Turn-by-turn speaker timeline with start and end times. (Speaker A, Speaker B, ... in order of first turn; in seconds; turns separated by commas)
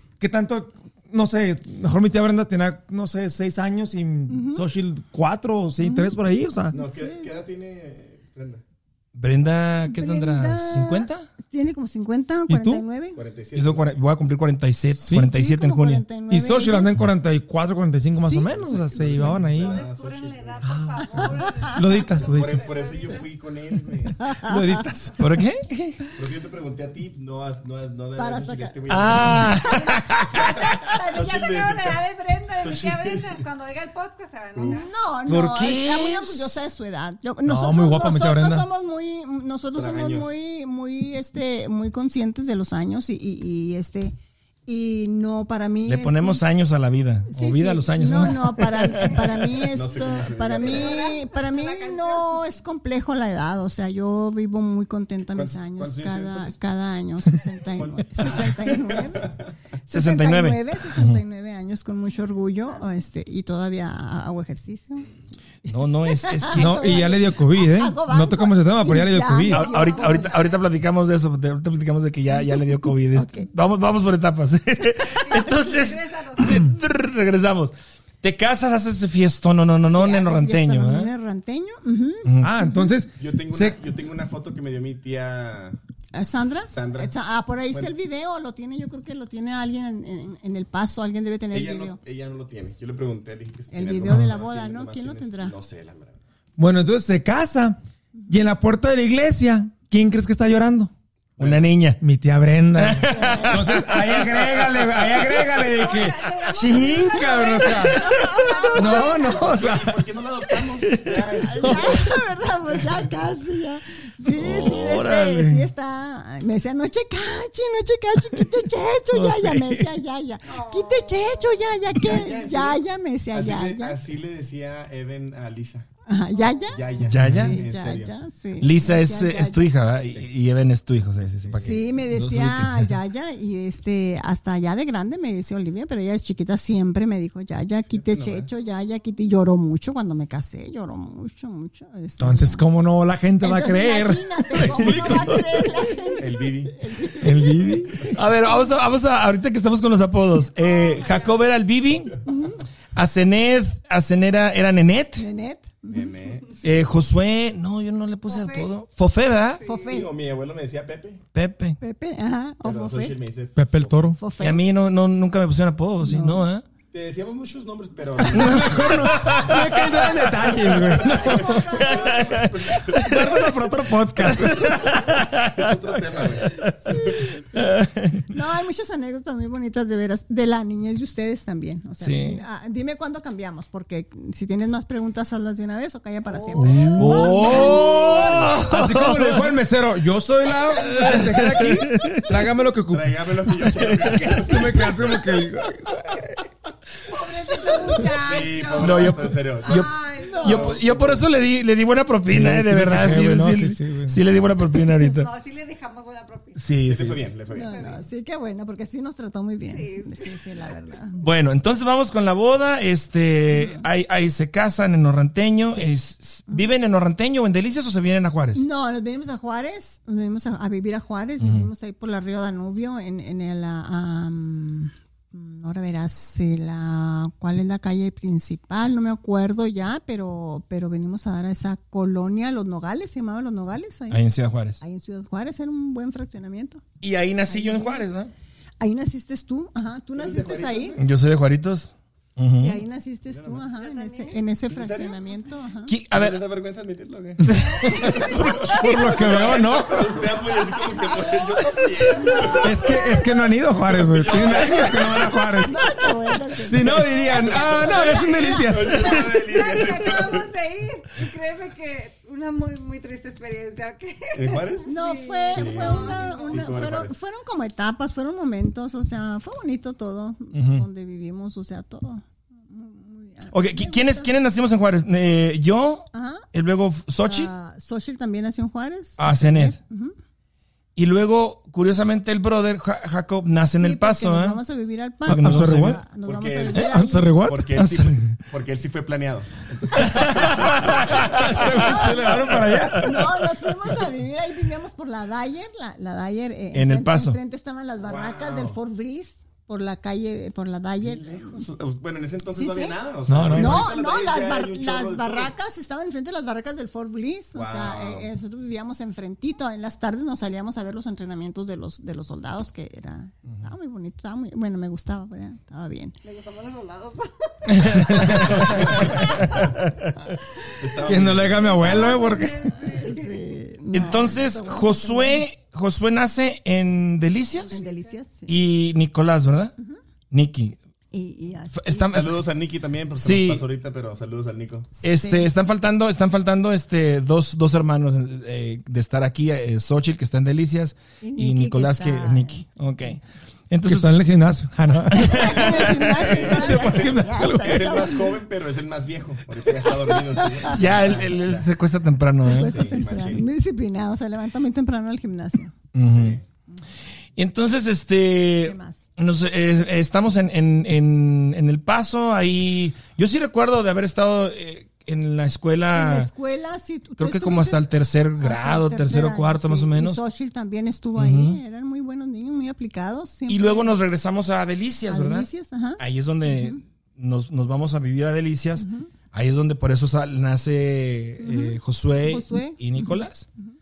Speaker A: 0.2-6.8, Speaker B: 4.3-4.6, Speaker B: 5.8-6.1, Speaker C: 6.7-8.6, Speaker B: 6.7-7.3, Speaker D: 9.2-11.3, Speaker B: 9.9-13.2, Speaker D: 12.5-12.8, Speaker C: 13.1-13.9, Speaker D: 13.6-16.0, Speaker A: 15.0-15.3, Speaker B: 15.2-16.9, Speaker A: 16.3-19.8, Speaker B: 18.2-18.5, Speaker C: 18.4-21.4, Speaker E: 19.5-23.3, Speaker B: 21.1-21.8, Speaker A: 21.7-22.7, Speaker C: 21.9-24.3, Speaker B: 24.2-24.8, Speaker A: 24.3-25.2, Speaker D: 25.2-25.7, Speaker B: 25.7-26.1, Speaker C: 26.2-29.8, Speaker B: 28.2-30.1, Speaker D: 28.9-30.4, Speaker E: 29.9-34.9, Speaker C: 30.7-32.0, Speaker C: 32.6-33.4, Speaker C: 34.5-34.8, Speaker B: 34.6-44.1, Speaker D: 35.3-36.6, Speaker A: 37.5-38.7, Speaker C: 39.7-40.3, Speaker B: 44.7-46.4, Speaker D: 45.9-49.4, Speaker B: 47.3-59.3, Speaker C: 49.5-51.1, Speaker E: 50.6-52.5, Speaker C: 55.3-56.6, Speaker C: 57.8-59.5, Speaker B: 59.9-65.1, Speaker D: 59.9-61.2, Speaker B: 65.7-70.5, Speaker D: 65.7-67.0, Speaker A: 66.5-69.7, Speaker D: 69.5-81.1, Speaker E: 69.8-70.6, Speaker B: 73.1-73.5, Speaker E: 75.2-76.8, Speaker B: 79.9-82.9, Speaker D: 82.2-82.5, Speaker A: 82.4-83.8, Speaker C: 83.2-85.8, Speaker B: 86.1-92.0, Speaker C: 86.7-87.1, Speaker C: 91.5-96.2, Speaker B: 93.7-95.6, Speaker A: 94.1-94.3, Speaker A: 96.6-100.9, Speaker D: 101.4-102.0, Speaker C: 101.4-101.7, Speaker A: 102.0-110.0, Speaker D: 102.8-104.4, Speaker B: 103.1-103.6, Speaker E: 105.5-109.5, Speaker B: 107.1-109.1, Speaker C: 108.8-112.2, Speaker D: 110.8-111.3, Speaker B: 111.4-124.0, Speaker A: 111.6-111.9, Speaker C: 112.8-113.0, Speaker D: 114.3-115.7, Speaker A: 119.1-119.9, Speaker E: 120.5-121.7, Speaker C: 122.0-125.9, Speaker B: 126.1-129.7, Speaker C: 126.7-128.2, Speaker D: 127.0-127.6, Speaker D: 128.6-132.8, Speaker C: 131.4-131.9, Speaker B: 131.6-142.7, Speaker C: 137.9-138.5, Speaker A: 142.2-145.7, Speaker B: 143.4-147.8, Speaker D: 144.7-145.2, Speaker C: 146.2-146.8, Speaker A: 147.2-148.0, Speaker C: 147.6-148.1, Speaker D: 148.1-152.2, Speaker E: 150.6-151.4, Speaker B: 152.3-152.6, Speaker D: 152.9-155.2, Speaker B: 155.2-156.1, Speaker C: 155.9-156.7, Speaker D: 156.6-159.6, Speaker E: 158.3-158.7, Speaker E: 159.5-159.9, Speaker B: 159.6-160.1, Speaker C: 159.7-161.2, Speaker D: 161.3-161.8, Speaker B: 161.8-163.2, Speaker C: 162.6-164.1, Speaker A: 163.6-164.2, Speaker B: 164.2-164.6, Speaker D: 164.4-166.6, Speaker B: 166.1-166.4, Speaker C: 166.9-173.4, Speaker A: 168.2-171.6, Speaker D: 168.2-169.9, Speaker E: 171.0-172.4, Speaker D: 171.7-173.4, Speaker A: 172.9-174.9, Speaker D: 174.2-176.8, Speaker C: 174.3-177.4, Speaker B: 176.8-177.8, Speaker D: 177.6-178.2, Speaker B: 178.3-187.8, Speaker D: 182.0-182.4, Speaker A: 186.5-193.4, Speaker D: 186.9-189.5, Speaker C: 187.6-188.6, Speaker D: 190.8-192.3, Speaker C: 192.9-195.2, Speaker D: 193.7-194.4, Speaker A: 194.0-196.2, Speaker E: 197.1-200.5, Speaker C: 198.0-201.2, Speaker D: 198.8-205.3, Speaker B: 200.2-200.8, Speaker A: 202.3-204.2, Speaker E: 205.0-206.6, Speaker D: 206.6-207.2, Speaker C: 206.8-207.9, Speaker B: 207.5-211.2, Speaker E: 207.6-208.0, Speaker E: 209.7-210.4, Speaker D: 211.2-218.6, Speaker B: 213.5-213.8, Speaker B: 218.6-234.2, Speaker D: 221.4-221.7, Speaker D: 234.1-234.8, Speaker B: 234.8-236.8, Speaker D: 237.0-238.3, Speaker B: 237.5-238.1, Speaker B: 238.8-241.0, Speaker C: 240.1-241.1, Speaker D: 241.0-242.8, Speaker B: 242.6-245.9, Speaker C: 243.3-243.7, Speaker E: 243.7-244.4, Speaker C: 244.7-245.2, Speaker D: 245.9-246.4, Speaker C: 246.1-252.8, Speaker A: 247.4-250.3, Speaker E: 247.6-248.2, Speaker B: 247.9-248.3, Speaker E: 251.1-252.9, Speaker B: 252.1-253.3, Speaker A: 252.6-255.9, Speaker C: 253.7-255.7, Speaker B: 255.6-259.0, Speaker A: 256.6-259.4, Speaker C: 256.8-257.9, Speaker E: 257.1-266.9, Speaker C: 258.7-260.5, Speaker C: 264.3-264.9, Speaker B: 264.9-274.3, Speaker C: 265.5-267.1, Speaker D: 270.5-270.9, Speaker D: 273.5-277.5, Speaker B: 276.1-276.5, Speaker B: 277.2-280.1, Speaker D: 279.2-279.8, Speaker D: 281.0-284.6, Speaker B: 283.7-287.5, Speaker D: 285.3-286.0, Speaker A: 285.3-286.0, Speaker C: 286.2-292.7, Speaker A: 286.7-287.7, Speaker D: 287.8-288.4, Speaker D: 290.5-293.0, Speaker A: 290.6-293.3, Speaker B: 291.8-292.1, Speaker B: 293.0-301.6, Speaker D: 296.7-297.4, Speaker C: 298.1-298.8, Speaker C: 301.0-305.5, Speaker B: 302.5-303.0, Speaker A: 303.3-303.9, Speaker B: 303.5-316.2, Speaker C: 307.6-308.3, Speaker E: 316.2-319.8, Speaker D: 317.7-319.9, Speaker C: 318.6-319.3, Speaker E: 320.4-323.4, Speaker C: 320.8-322.3, Speaker A: 321.0-322.7, Speaker B: 322.9-325.4, Speaker D: 323.9-327.8, Speaker E: 327.6-328.1, Speaker B: 327.7-328.5, Speaker D: 328.5-329.8, Speaker D: 330.3-330.8, Speaker B: 331.1-332.3, Speaker D: 331.8-332.4, Speaker C: 332.1-334.9, Speaker D: 333.2-333.6, Speaker B: 335.0-335.5, Speaker D: 335.0-344.2, Speaker B: 341.2-342.6, Speaker A: 343.9-345.3, Speaker D: 345.1-346.5, Speaker C: 345.2-351.7, Speaker B: 345.2-348.4, Speaker A: 346.3-347.9, Speaker B: 350.1-350.8, Speaker D: 350.7-353.1, Speaker C: 352.4-353.5, Speaker B: 352.4-355.7, Speaker D: 355.9-356.4, Speaker C: 356.1-356.4, Speaker D: 357.4-366.3, Speaker B: 358.6-359.0, Speaker B: 365.9-374.0, Speaker D: 367.2-370.2, Speaker D: 371.2-371.6, Speaker D: 373.5-375.5, Speaker B: 375.1-376.8, Speaker D: 376.0-383.5, Speaker B: 378.8-379.1, Speaker B: 381.4-383.1